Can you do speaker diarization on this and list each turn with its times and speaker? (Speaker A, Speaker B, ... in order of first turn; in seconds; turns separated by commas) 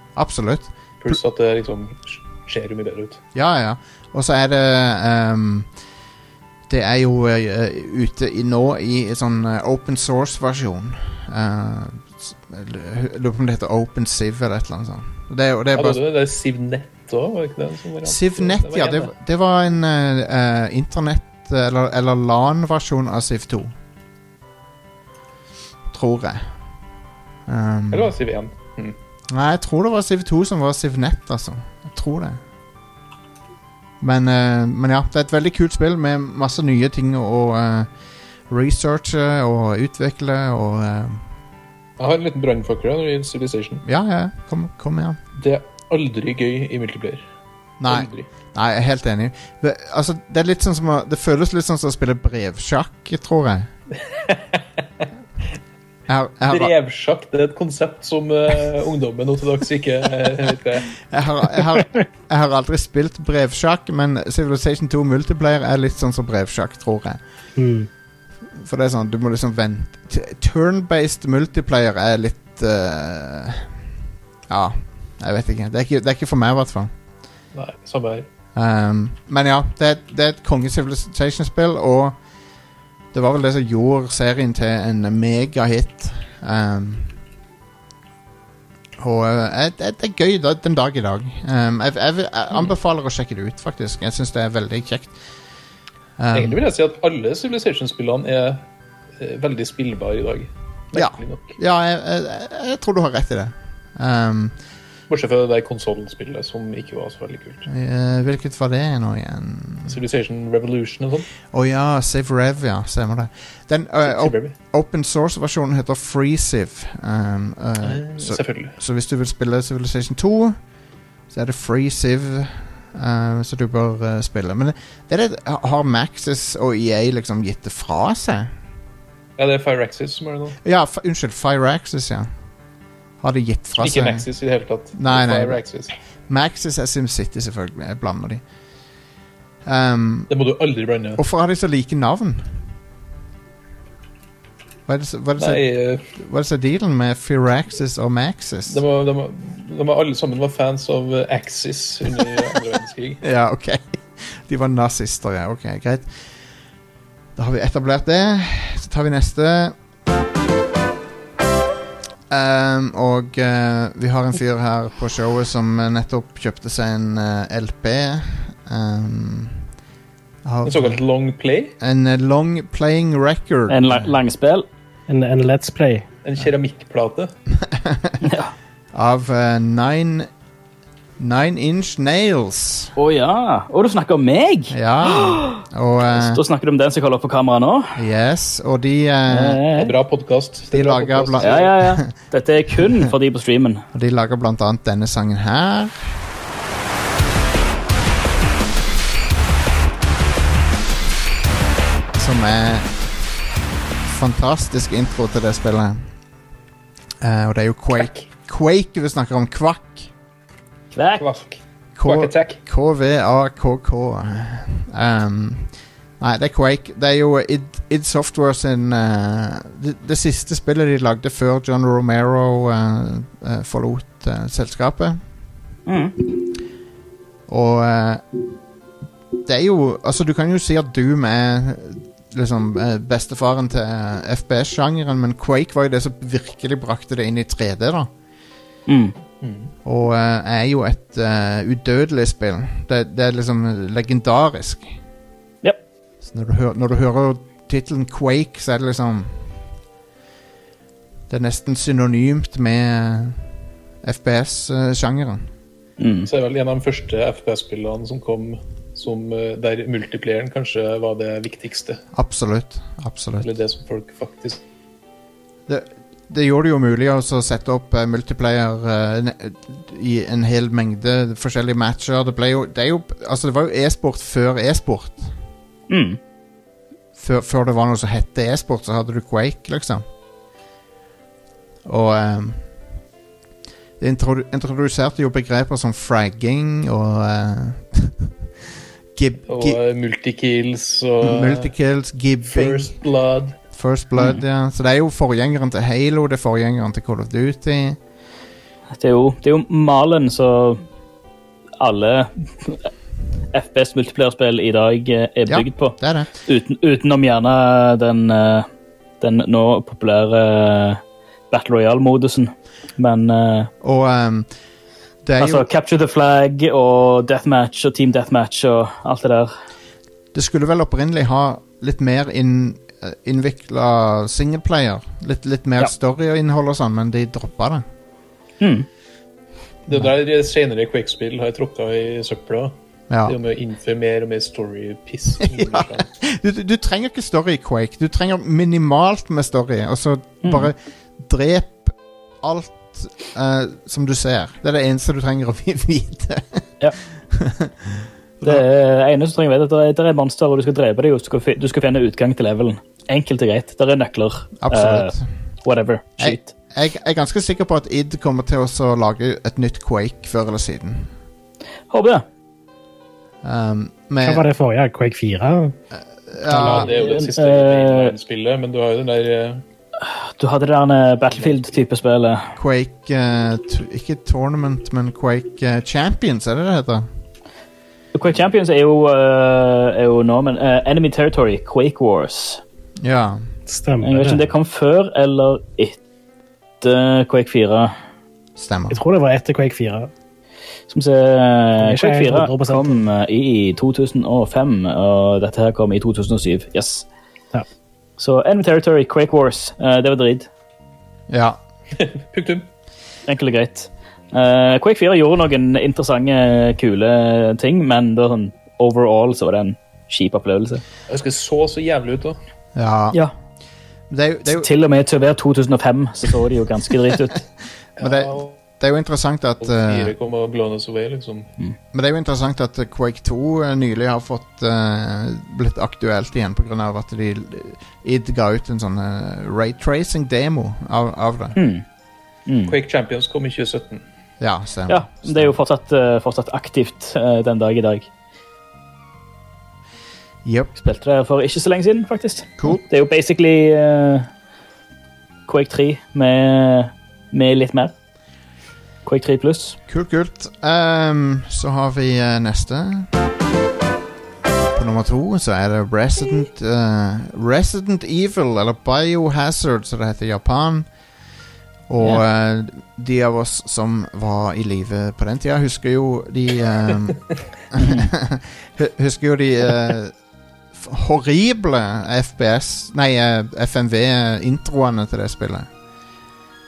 Speaker A: 0.1-1.2, Speaker B: 1.0-3.2, Speaker A: 3.4-5.7, Speaker A: 6.7-16.0, Speaker B: 15.8-19.1, Speaker A: 18.0-23.7, Speaker A: 25.9-26.5, Speaker A: 27.5-28.1, Speaker B: 27.9-29.0, Speaker A: 29.3-32.4, Speaker A: 34.0-37.9, Speaker A: 38.5-41.2, Speaker B: 42.0-43.9, Speaker A: 43.9-45.2, Speaker B: 45.4-47.2, Speaker A: 47.8-53.7, Speaker B: 47.9-48.3, Speaker B: 54.1-54.6, Speaker A: 56.1-56.7, Speaker B: 56.5-61.0, Speaker A: 61.0-67.2, Speaker C: 67.6-67.9, Speaker A: 68.5-73.7, Speaker A: 74.5-76.9, Speaker B: 77.5-78.3, Speaker A: 78.5-82.2, Speaker A: 83.1-87.1, Speaker A: 89.0-95.2, Speaker A: 96.2-96.6, Speaker B: 96.3-98.6, Speaker B: 99.2-101.6, Speaker A: 100.9-104.5, Speaker B: 105.1-107.7, Speaker A: 107.7-110.0, Speaker B: 109.9-111.3, Speaker A: 111.5-120.6, Speaker B: 114.0-114.5, Speaker B: 117.8-118.8, Speaker A: 121.3-128.5, Speaker B: 129.4-130.6, Speaker A: 130.6-132.3, Speaker A: 133.2-134.3, Speaker B: 133.8-135.9, Speaker A: 135.0-135.6, Speaker A: 136.3-138.4, Speaker A: 139.6-140.3, Speaker B: 140.3-141.2, Speaker A: 141.2-142.6, Speaker A: 144.9-145.6, Speaker B: 145.4-146.1, Speaker A: 146.1-148.8, Speaker B: 148.7-153.2, Speaker A: 153.2-156.1, Speaker A: 157.4-159.8, Speaker A: 162.3-169.6, Speaker A: 170.4-171.0, Speaker B: 170.6-171.8, Speaker A: 171.8-174.1, Speaker D: 173.7-174.7, Speaker C: 175.1-176.1, Speaker B: 176.2-177.3, Speaker A: 177.5-178.2, Speaker D: 178.2-178.5, Speaker A: 178.9-180.3, Speaker A: 181.2-182.9, Speaker D: 183.0-187.9, Speaker A: 184.7-186.4, Speaker A: 188.0-189.6, Speaker D: 189.3-189.9, Speaker B: 189.8-191.7, Speaker A: 190.7-192.1, Speaker D: 191.4-193.8, Speaker A: 193.9-196.1, Speaker A: 202.1-202.9, Speaker A: 204.0-206.0, Speaker A: 207.2-210.1, Speaker B: 208.0-208.2, Speaker D: 210.9-211.2, Speaker B: 211.2-212.6, Speaker A: 212.0-225.2, Speaker D: 225.9-226.2, Speaker A: 227.5-228.2, Speaker A: 229.4-238.1, Speaker D: 238.9-239.2, Speaker B: 239.4-239.7, Speaker A: 239.8-244.9, Speaker A: 246.2-249.4, Speaker A: 251.3-253.4, Speaker A: 254.0-255.5, Speaker D: 256.0-256.3, Speaker B: 256.2-262.0, Speaker A: 262.1-263.5, Speaker B: 263.4-264.6, Speaker A: 265.7-275.3, Speaker D: 275.9-276.2, Speaker A: 277.2-280.0, Speaker A: 281.8-282.6, Speaker A: 284.0-288.3, Speaker A: 289.1-289.8, Speaker B: 289.5-291.7, Speaker A: 291.2-292.9, Speaker B: 292.4-293.6, Speaker A: 293.7-298.0, Speaker D: 298.9-300.8, Speaker D: 301.8-302.9, Speaker D: 303.5-308.7, Speaker A: 305.5-306.3, Speaker D: 309.2-313.7, Speaker A: 313.8-314.5, Speaker A: 315.2-315.7, Speaker D: 315.4-319.5, Speaker A: 320.3-327.8, Speaker D: 328.6-328.9, Speaker B: 329.9-336.1, Speaker A: 333.1-333.4, Speaker A: 335.4-346.7, Speaker D: 340.4-340.7, Speaker A: 347.3-348.6, Speaker D: 348.4-356.5, Speaker A: 354.6-355.3, Speaker A: 356.2-361.1, Speaker D: 361.9-362.2, Speaker A: 363.4-364.5, Speaker C: 364.2-365.8, Speaker A: 365.9-366.9, Speaker C: 366.5-367.3, Speaker B: 366.5-369.6, Speaker D: 367.0-368.1, Speaker D: 370.0-372.5, Speaker A: 372.6-377.1, Speaker D: 378.1-382.6, Speaker A: 383.0-383.4, Speaker C: 383.7-384.4, Speaker D: 384.0-386.0, Speaker D: 386.8-387.9, Speaker A: 388.6-389.0, Speaker C: 388.9-390.1, Speaker D: 390.9-397.1, Speaker C: 391.8-393.0, Speaker D: 398.2-400.5, Speaker A: 401.3-401.6, Speaker B: 402.0-402.7, Speaker D: 403.3-410.8, Speaker B: 411.1-412.4, Speaker A: 412.8-413.2, Speaker A: 414.1-414.7, Speaker D: 414.5-417.4, Speaker A: 418.0-420.1, Speaker B: 418.0-418.6, Speaker B: 419.6-421.5, Speaker A: 421.9-431.6, Speaker D: 431.6-431.8, Speaker D: 432.5-432.8, Speaker B: 432.7-434.0, Speaker A: 434.4-435.5, Speaker D: 434.9-438.1, Speaker A: 440.4-440.7, Speaker D: 440.8-444.3, Speaker D: 445.5-447.9, Speaker D: 449.0-449.8, Speaker A: 449.9-453.1, Speaker A: 454.7-460.9, Speaker A: 461.9-470.1, Speaker D: 467.8-468.1, Speaker A: 470.7-475.7